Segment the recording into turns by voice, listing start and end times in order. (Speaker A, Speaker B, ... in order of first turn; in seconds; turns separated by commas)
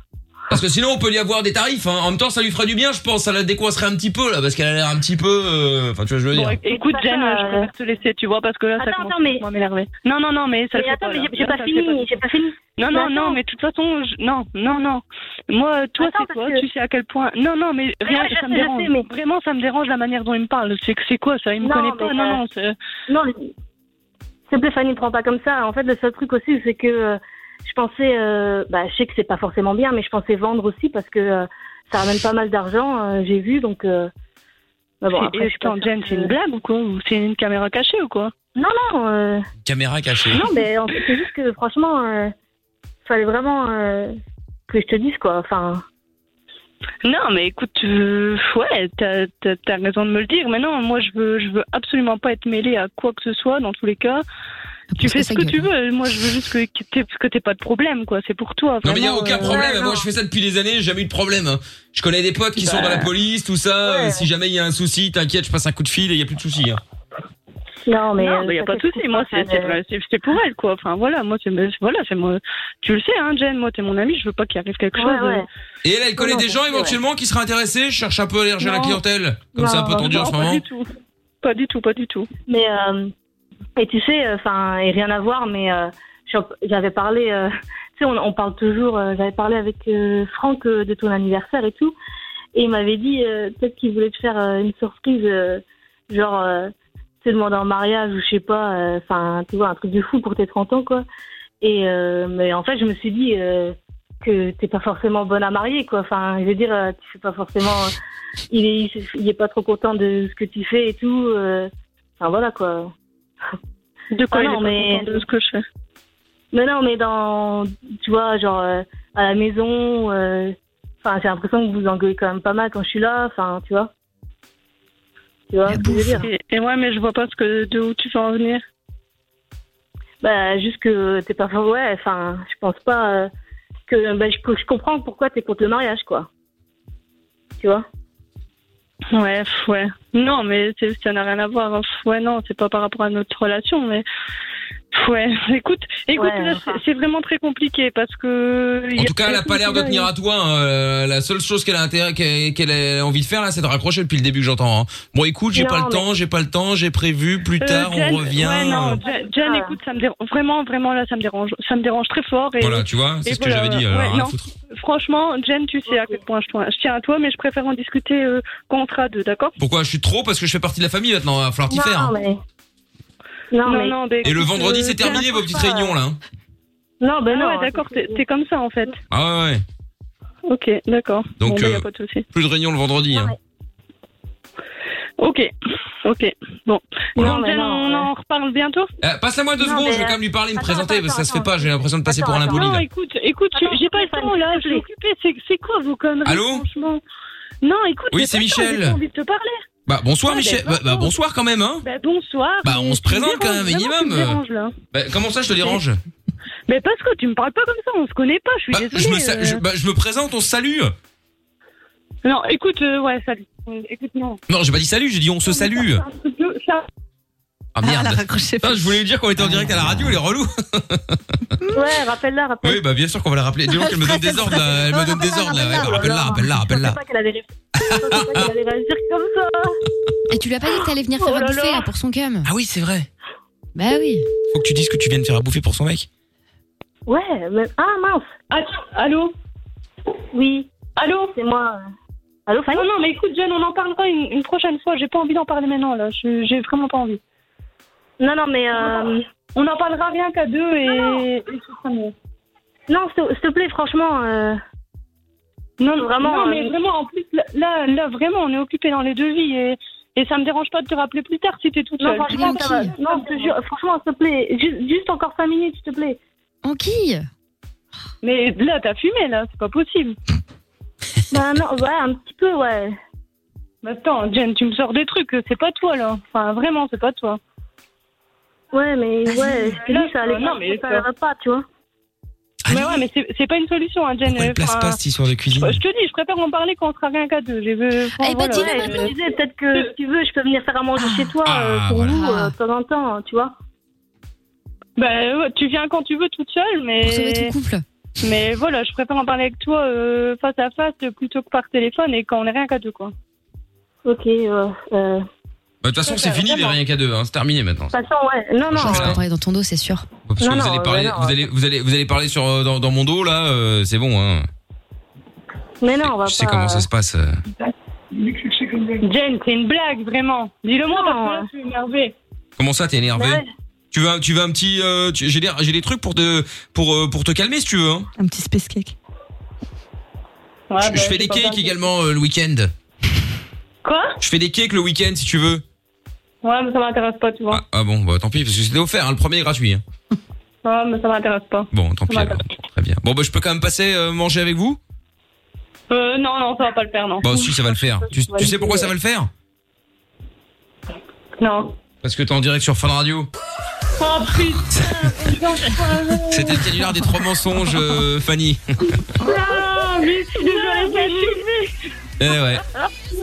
Speaker A: 0.5-6.6, Speaker B: 6.3-12.0, Speaker C: 6.7-7.7, Speaker C: 8.8-9.4, Speaker C: 10.7-13.4, Speaker B: 12.8-22.8, Speaker C: 16.0-16.6, Speaker C: 18.0-19.1, Speaker C: 21.6-22.4, Speaker C: 23.1-23.5, Speaker C: 24.5-34.1, Speaker C: 35.0-36.3, Speaker B: 35.1-38.3, Speaker C: 38.5-39.5, Speaker A: 39.6-40.4, Speaker C: 40.3-42.3, Speaker C: 43.0-44.1, Speaker C: 44.7-45.8, Speaker B: 47.0-54.2, Speaker D: 54.9-55.7, Speaker B: 55.0-59.7, Speaker A: 58.8-66.8, Speaker C: 59.0-60.1, Speaker B: 62.6-63.1, Speaker C: 63.8-64.2, Speaker C: 67.9-69.8, Speaker B: 68.2-75.4, Speaker C: 75.0-75.5, Speaker A: 75.8-80.6, Speaker C: 76.2-77.0, Speaker B: 78.6-79.0, Speaker C: 79.6-80.2, Speaker B: 80.0-80.9, Speaker B: 81.4-82.3, Speaker C: 82.5-83.1, Speaker C: 83.8-92.0, Speaker C: 92.5-101.0, Speaker C: 101.6-107.9, Speaker C: 108.5-112.9, Speaker B: 114.1-115.6, Speaker C: 114.3-115.2, Speaker C: 116.5-123.9, Speaker C: 125.5-126.3, Speaker D: 125.7-126.2, Speaker B: 126.2-128.6, Speaker C: 130.2-133.3, Speaker C: 133.9-136.3, Speaker C: 137.6-137.8, Speaker B: 139.1-144.1, Speaker B: 144.9-150.1, Speaker C: 146.2-146.8, Speaker A: 149.0-159.0, Speaker C: 155.5-156.1, Speaker B: 157.6-169.6, Speaker C: 158.7-159.8, Speaker A: 162.6-164.5, Speaker C: 165.9-166.2, Speaker A: 169.6-172.1, Speaker C: 171.7-172.4, Speaker C: 173.5-175.9, Speaker B: 173.7-175.2, Speaker A: 174.2-176.2, Speaker C: 177.0-178.2, Speaker B: 177.3-178.9, Speaker A: 179.1-179.6, Speaker B: 180.5-182.3, Speaker A: 181.4-183.3, Speaker C: 183.1-183.4, Speaker B: 185.2-185.5, Speaker B: 186.1-188.9, Speaker C: 187.2-188.1, Speaker A: 189.0-192.9, Speaker C: 189.6-192.8, Speaker B: 192.5-197.0, Speaker C: 193.6-194.8, Speaker A: 196.2-196.7, Speaker B: 197.6-199.6, Speaker A: 198.1-199.0, Speaker A: 199.9-201.8, Speaker B: 200.3-201.1, Speaker B: 201.8-204.7, Speaker A: 202.6-206.0, Speaker B: 206.7-209.6, Speaker A: 208.7-210.9, Speaker B: 212.2-214.4, Speaker A: 214.5-216.0, Speaker B: 216.0-216.9, Speaker A: 217.8-221.2, Speaker E: 217.8-220.0, Speaker C: 221.7-222.8, Speaker A: 222.6-227.0, Speaker E: 223.7-225.9, Speaker C: 225.2-229.8, Speaker A: 227.8-228.5, Speaker D: 230.3-232.5, Speaker B: 231.2-231.8, Speaker A: 232.4-233.1, Speaker D: 233.8-234.3, Speaker A: 234.5-236.1, Speaker C: 237.1-238.3, Speaker B: 238.5-239.3, Speaker C: 240.3-240.7, Speaker B: 241.0-241.3, Speaker C: 241.3-241.8, Speaker C: 242.5-242.9, Speaker B: 242.7-247.2, Speaker C: 248.2-249.2, Speaker B: 248.7-252.1, Speaker C: 252.9-254.6, Speaker B: 255.8-263.5, Speaker C: 256.0-256.7, Speaker C: 262.0-266.2, Speaker D: 262.3-262.9, Speaker D: 266.6-267.3, Speaker B: 268.2-270.2, Speaker C: 271.3-273.0, Speaker B: 273.8-277.4, Speaker C: 278.7-281.7, Speaker B: 279.3-281.1, Speaker A: 282.6-283.1, Speaker B: 282.7-285.0, Speaker A: 284.3-285.8, Speaker B: 285.6-289.1, Speaker D: 288.2-289.1, Speaker C: 288.5-293.5, Speaker A: 291.4-292.2, Speaker D: 292.1-292.5, Speaker B: 295.0-297.5, Speaker D: 297.0-297.8, Speaker B: 298.2-303.1, Speaker C: 304.1-305.2, Speaker A: 305.8-307.9, Speaker B: 306.1-306.8, Speaker C: 307.9-309.2, Speaker A: 308.7-309.2, Speaker D: 308.8-310.1, Speaker A: 310.3-314.5, Speaker C: 310.4-311.4, Speaker C: 315.8-316.9, Speaker A: 316.0-317.4, Speaker B: 319.0-322.1, Speaker C: 320.9-321.4, Speaker A: 322.6-328.1, Speaker C: 323.2-323.5, Speaker E: 328.2-328.9, Speaker B: 330.7-331.8, Speaker A: 330.8-332.7, Speaker B: 333.8-334.2, Speaker A: 334.2-335.6, Speaker B: 336.4-337.6, Speaker A: 337.5-339.8, Speaker B: 340.6-342.4, Speaker A: 341.7-344.8, Speaker B: 345.9-347.5, Speaker A: 347.2-349.3, Speaker C: 348.1-348.9, Speaker B: 351.4-351.7, Speaker A: 352.0-353.3, Speaker B: 354.0-356.8, Speaker A: 354.7-355.1, Speaker A: 356.3-359.0, Speaker B: 359.2-361.7, Speaker C: 359.3-359.6, Speaker C: 360.4-361.2, Speaker A: 362.2-362.6